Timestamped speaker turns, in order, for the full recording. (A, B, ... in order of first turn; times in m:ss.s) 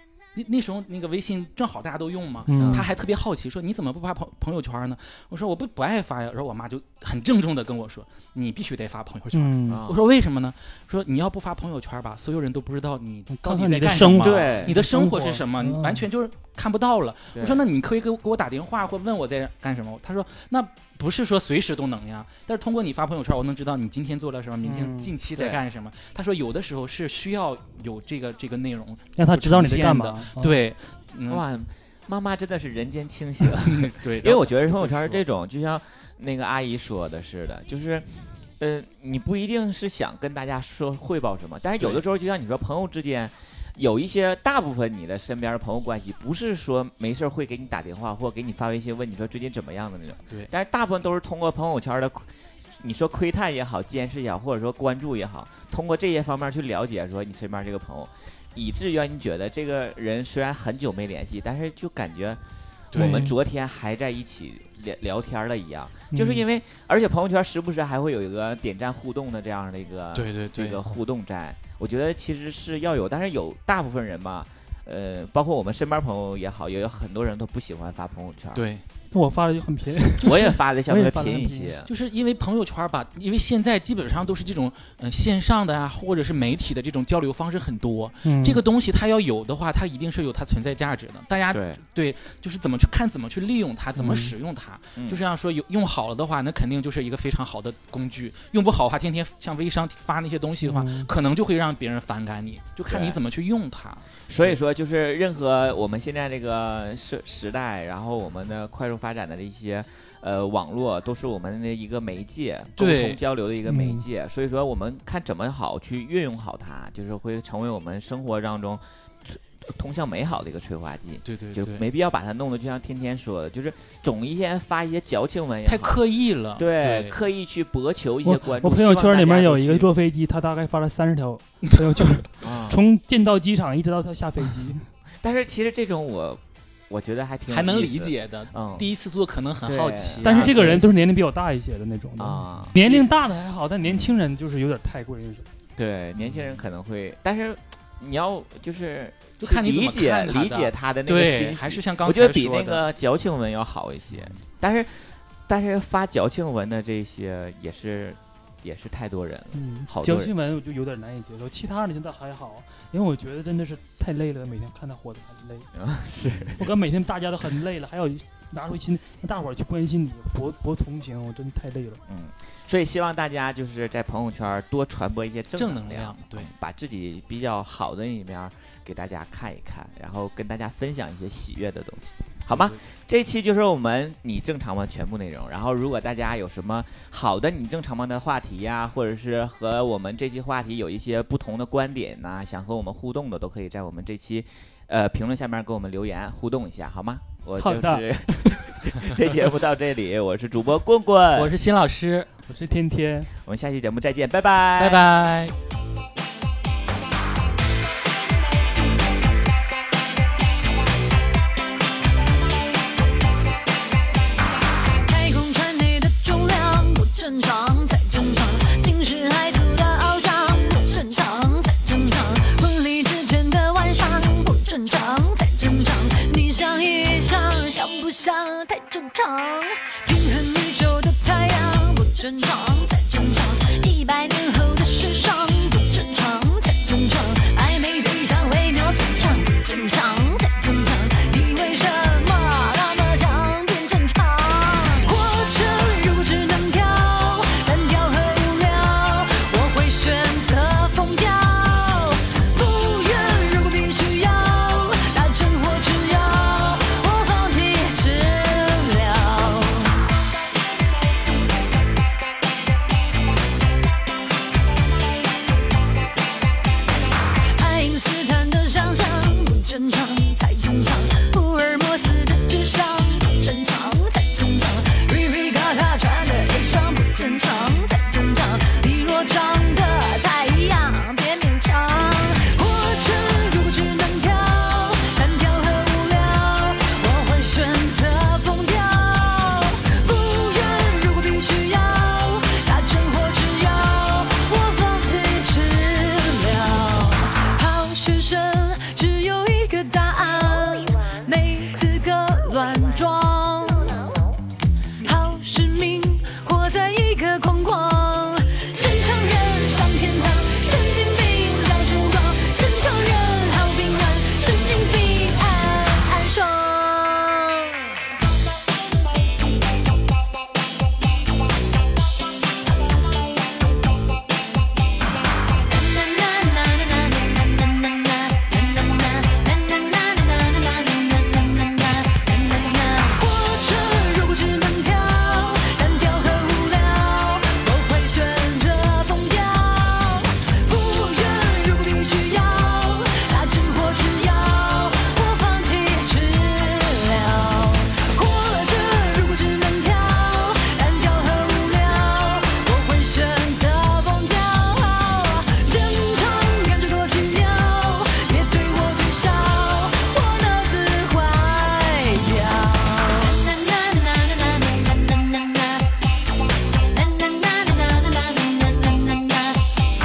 0:00.4-0:31.4 A
0:02.5-0:02.9 B
0:02.5-0:02.9 C
0:09.3-0:09.8 B
0:09.7-0:10.0 C
0:13.3-0:16.0 B
0:14.0-0:14.8 C
0:17.3-0:17.7 C
0:24.6-0:25.1 B
0:25.3-0:25.6 C
0:29.2-0:30.6 B
0:31.3-1:18.6 C
0:33.6-0:35.2 A
0:41.8-0:42.0 A
1:02.9-1:03.3 A
1:03.0-1:03.3 B
1:06.1-1:06.4 B
1:10.1-1:10.8 A
1:18.5-1:18.8 A
1:19.1-1:21.7 B
1:20.2-1:21.9 C
1:21.9-1:44.1 A
1:28.2-1:28.6 B
1:31.5-1:31.8 C
1:34.0-1:34.4 B
1:35.0-1:35.2 C
1:40.6-1:41.1 B
1:42.9-1:43.2 C
1:44.3-2:06.0 C
1:52.8-1:53.2 A
1:53.7-1:54.0 B
2:01.3-2:01.8 A
2:05.7-2:07.2 A
2:06.6-2:09.9 C
2:08.2-2:14.9 B
2:12.4-2:12.8 C
2:15.2-2:18.9 C
2:17.5-2:20.9 A
2:19.6-2:20.9 C
2:20.2-2:25.5 B
2:22.2-2:22.8 C
2:22.5-2:23.0 A
2:25.8-2:40.3 C
2:26.2-2:26.6 A
2:29.4-2:32.8 A
2:34.1-2:34.4 A
2:39.5-2:45.7 B
2:45.7-2:46.6 C
2:46.6-2:52.0 B
2:52.1-3:21.5 C
2:55.6-2:56.5 A
3:02.5-3:02.8 A
3:17.6-3:18.8 B
3:21.3-3:22.3 A
3:22.5-3:23.3 B
3:23.4-3:25.0 C
3:24.8-3:25.6 A
3:35.0-4:20.0 D
4:27.5-5:04.1 D
5:05.0-5:17.9 D
5:25.7-6:05.8 D
6:06.9-6:09.6 D